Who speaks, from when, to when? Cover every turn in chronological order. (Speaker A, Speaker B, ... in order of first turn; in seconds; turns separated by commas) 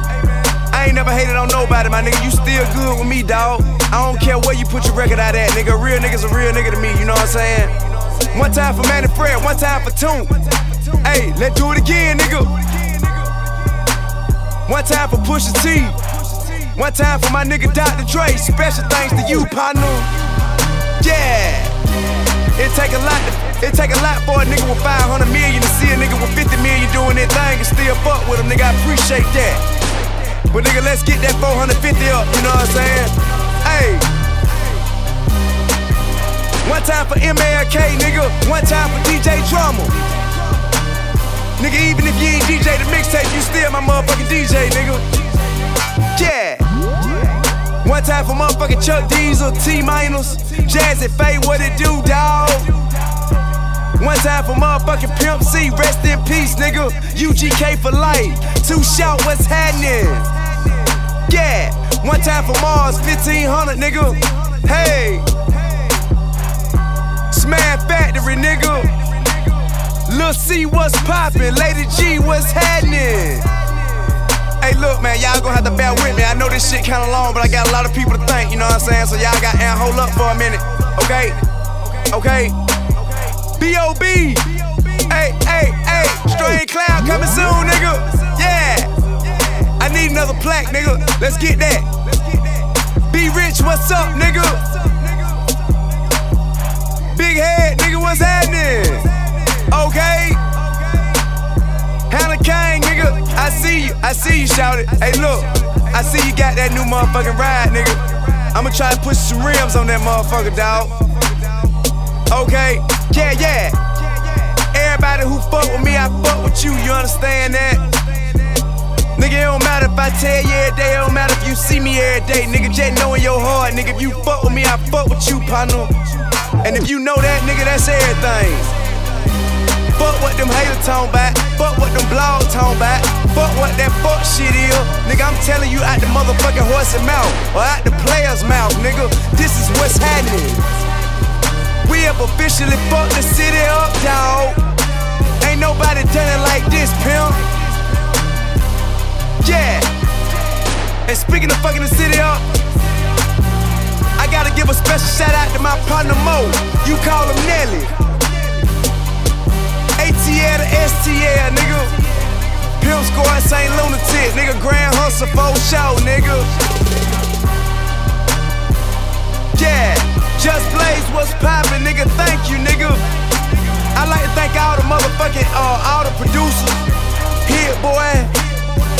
Speaker A: 0.4-13.1, Speaker A: 14.7-20.1, Speaker A: 21.0-21.8, Speaker A: 22.4-29.7, Speaker A: 30.3-34.1, Speaker A: 36.6-40.0, Speaker A: 41.6-45.2, Speaker A: 46.1-46.9, Speaker A: 47.8-52.9, Speaker A: 54.0-60.4, Speaker A: 61.2-65.4, Speaker A: 67.3-69.3, Speaker A: 70.1-73.6, Speaker A: 74.6-81.4, Speaker A: 82.1-82.6, Speaker A: 83.2-95.4, Speaker A: 97.1-100.5, Speaker A: 102.1-111.7, Speaker A: 112.3-118.0, Speaker A: 119.2-126.0, Speaker A: 126.6-128.7, Speaker A: 129.9-140.8, Speaker A: 141.8-147.5, Speaker A: 149.4-149.9, Speaker A: 151.1-152.6, Speaker A: 154.2-158.2, Speaker A: 160.0-162.1, Speaker A: 162.8-166.6, Speaker A: 169.5-173.1, Speaker A: 173.8-178.7